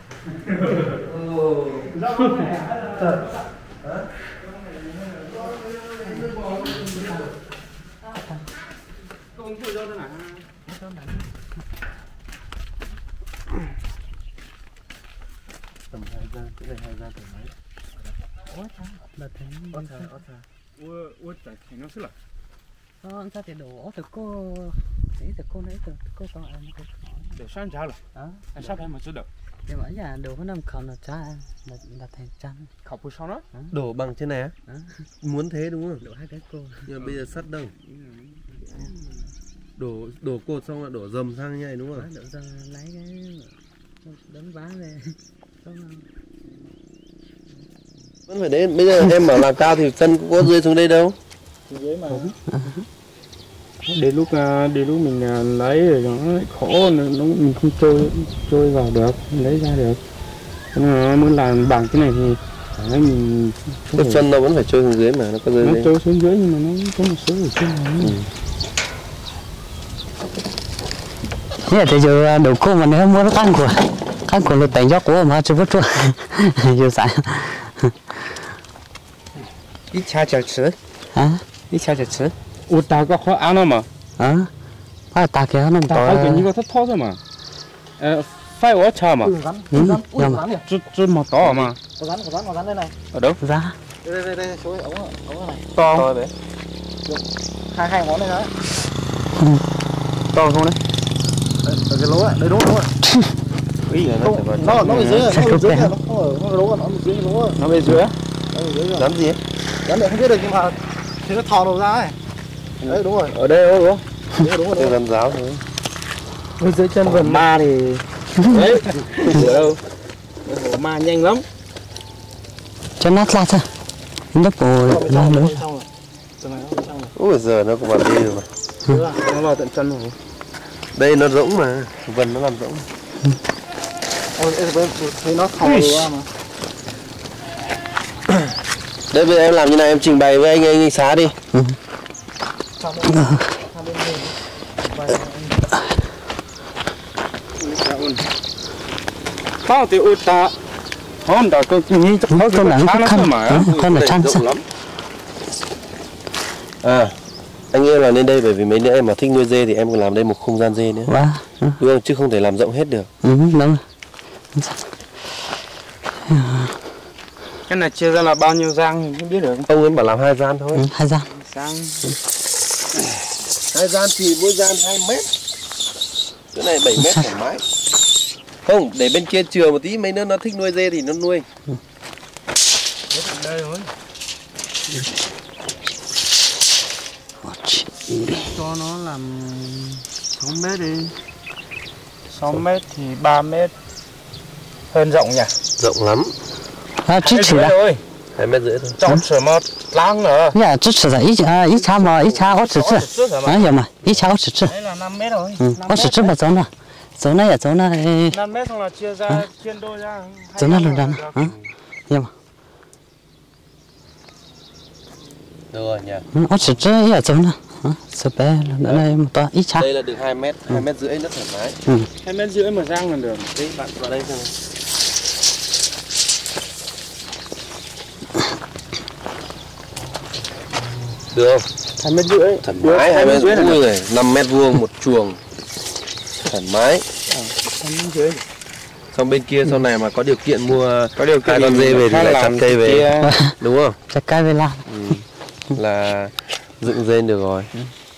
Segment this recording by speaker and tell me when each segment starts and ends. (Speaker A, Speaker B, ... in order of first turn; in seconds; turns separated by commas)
Speaker A: 0.5-2.1, Speaker B: 1.9-3.3, Speaker A: 2.8-4.2, Speaker A: 5.3-7.3, Speaker C: 6.8-7.3, Speaker B: 9.3-10.5, Speaker A: 15.9-17.5, Speaker C: 18.5-20.1, Speaker A: 19.7-20.4, Speaker B: 20.8-22.1, Speaker C: 23.0-27.3, Speaker B: 27.3-28.0, Speaker C: 28.1-28.7, Speaker B: 28.5-29.3, Speaker C: 29.7-32.7, Speaker B: 32.8-33.5, Speaker A: 33.7-34.5, Speaker C: 34.7-35.0, Speaker A: 35.2-36.0, Speaker C: 36.0-36.9, Speaker A: 36.9-37.7, Speaker B: 37.9-38.9, Speaker A: 39.8-42.1, Speaker C: 41.9-46.0, Speaker A: 48.3-51.1, Speaker D: 51.7-52.3, Speaker C: 52.5-52.8, Speaker B: 53.8-60.0, Speaker B: 60.7-64.2, Speaker A: 63.9-65.9, Speaker B: 65.6-68.2, Speaker A: 68.0-68.3, Speaker C: 71.6-78.5, Speaker B: 79.9-80.8, Speaker C: 81.1-81.4, Speaker B: 81.7-83.9, Speaker C: 84.2-84.5, Speaker C: 85.1-86.5, Speaker B: 85.9-87.2, Speaker B: 88.0-89.3, Speaker D: 89.2-90.6, Speaker C: 89.7-90.4, Speaker B: 90.7-91.8, Speaker D: 91.6-92.9, Speaker B: 93.1-93.4, Speaker C: 93.4-93.8, Speaker D: 94.0-95.7, Speaker B: 95.8-96.1, Speaker A: 95.9-96.3, Speaker D: 97.0-98.5, Speaker C: 99.4-99.6, Speaker C: 100.3-100.7, Speaker D: 101.6-102.9, Speaker B: 103.9-105.2, Speaker D: 104.2-107.6, Speaker A: 104.6-105.2, Speaker C: 105.2-105.9, Speaker B: 107.5-108.1, Speaker D: 108.5-109.1, Speaker A: 108.9-109.4, Speaker D: 109.8-112.2, Speaker B: 112.8-114.0, Speaker D: 112.9-113.3, Speaker D: 114.3-114.9, Speaker A: 114.7-115.6, Speaker B: 116.6-119.8, Speaker B: 120.5-121.4, Speaker C: 123.0-123.7, Speaker C: 124.3-125.6, Speaker D: 124.8-125.9, Speaker D: 126.4-127.1, Speaker A: 127.1-128.5, Speaker D: 128.9-129.2, Speaker B: 129.2-130.2, Speaker A: 130.9-132.9, Speaker D: 134.3-136.3, Speaker B: 135.6-136.0, Speaker A: 139.1-141.3, Speaker D: 142.8-145.7, Speaker C: 143.1-143.5, Speaker B: 147.6-148.2, Speaker B: 149.6-150.6, Speaker B: 151.2-153.8, Speaker C: 152.3-154.4, Speaker A: 153.6-154.6, Speaker A: 156.8-157.2, Speaker A: 157.7-161.1, Speaker C: 161.1-161.8, Speaker A: 161.8-163.1, Speaker C: 163.2-163.8, Speaker C: 164.5-164.8, Speaker C: 166.2-166.8, Speaker B: 167.7-169.7, Speaker A: 169.7-170.9, Speaker C: 170.7-171.3, Speaker B: 171.3-172.1, Speaker A: 173.7-175.3, Speaker A: 176.5-177.6, Speaker A: 178.6-181.5, Speaker B: 183.1-183.9, Speaker C: 187.4-188.5, Speaker B: 188.3-191.1, Speaker B: 192.3-193.7, Speaker B: 194.9-195.6, Speaker A: 195.8-196.3, Speaker C: 197.0-197.8, Speaker B: 197.2-198.0, Speaker A: 198.3-199.0, Speaker B: 199.0-200.6, Speaker C: 200.5-204.8, Speaker B: 202.2-203.7, Speaker B: 204.7-206.3, Speaker C: 205.6-208.3, Speaker B: 208.3-211.7, Speaker C: 210.6-211.5, Speaker A: 215.7-216.2, Speaker C: 216.3-219.9, Speaker A: 219.8-221.8, Speaker B: 222.2-224.0, Speaker A: 223.9-224.5, Speaker A: 231.3-231.7, Speaker B: 232.0-233.8, Speaker A: 232.6-235.4, Speaker A: 236.4-237.1, Speaker B: 237.3-238.4, Speaker A: 239.1-244.0, Speaker B: 241.2-243.3, Speaker C: 243.2-243.6, Speaker C: 244.1-244.9, Speaker A: 244.8-247.7